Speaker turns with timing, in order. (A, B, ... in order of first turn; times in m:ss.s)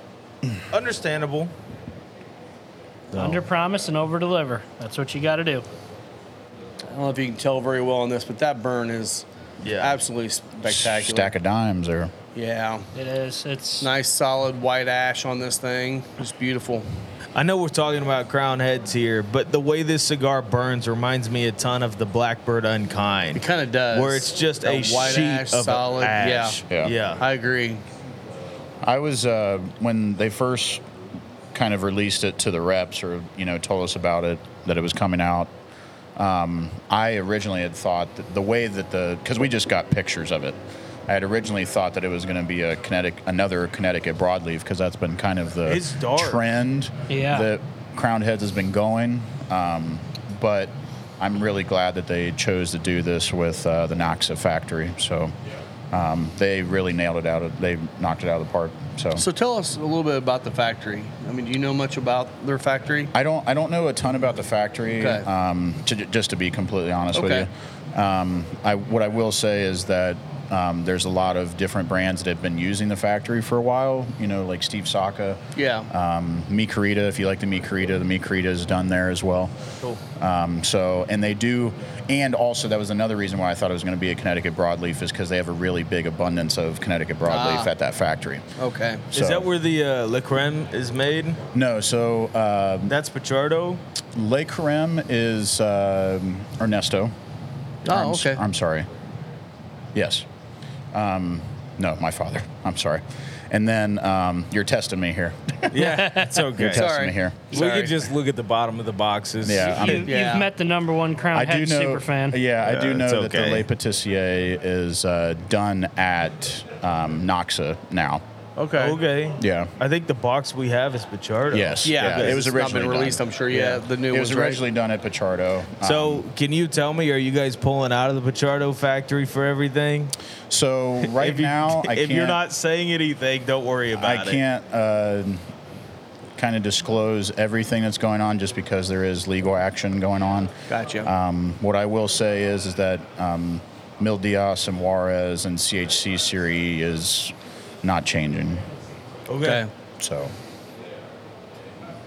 0:00.7-0:01.5 A
0:03.1-0:03.4 A
0:03.1-0:05.6 B
0:06.9-0:09.2 C
0:09.6-0:10.0 A
0:09.8-0:11.3 C
0:10.6-0:12.1 D
0:12.3-0:12.9 C
0:12.9-0:13.9 B
0:13.8-0:16.8 C
0:17.3-0:27.2 A
0:23.3-0:26.6 C
0:27.2-0:27.8 C
0:28.8-0:30.8 D
0:31.5-0:35.5 D
0:36.2-0:55.3 D
0:45.6-0:46.4 A
0:47.1-0:47.5 B
0:55.9-0:59.2 D
0:59.2-1:03.1 C
1:03.1-1:19.5 D
1:05.0-1:05.3 C
1:07.1-1:07.5 C
1:15.6-1:15.9 C
1:20.2-1:28.4 D
1:27.3-1:27.7 C
1:28.6-1:29.0 C
1:29.1-1:29.5 D
1:29.1-1:31.4 A
1:31.5-1:32.9 D
1:32.9-1:33.8 A
1:34.1-1:37.1 D
1:37.8-1:38.9 D
1:37.8-1:38.4 C
1:39.9-1:40.2 D
1:40.9-1:46.0 D
1:45.7-1:46.9 A
1:46.0-1:46.2 B
1:46.6-1:47.5 D
1:46.6-1:48.0 C
1:47.5-1:50.1 A
1:49.4-1:50.1 D
1:49.5-1:52.4 B
1:50.0-1:50.5 C
1:51.3-1:58.2 D
1:52.6-1:53.7 A
1:58.6-1:59.0 C
1:58.8-2:02.4 A
1:59.4-1:59.7 D
2:01.5-2:06.2 D
2:01.8-2:04.6 C
2:05.8-2:10.1 A
2:10.5-2:12.4 D
2:11.0-2:14.4 A
2:14.0-2:15.5 D
2:16.4-2:20.5 D
2:20.7-2:21.1 C
2:21.0-2:28.6 D
2:29.3-2:29.6 A
2:29.4-2:29.7 C
2:30.0-2:30.3 D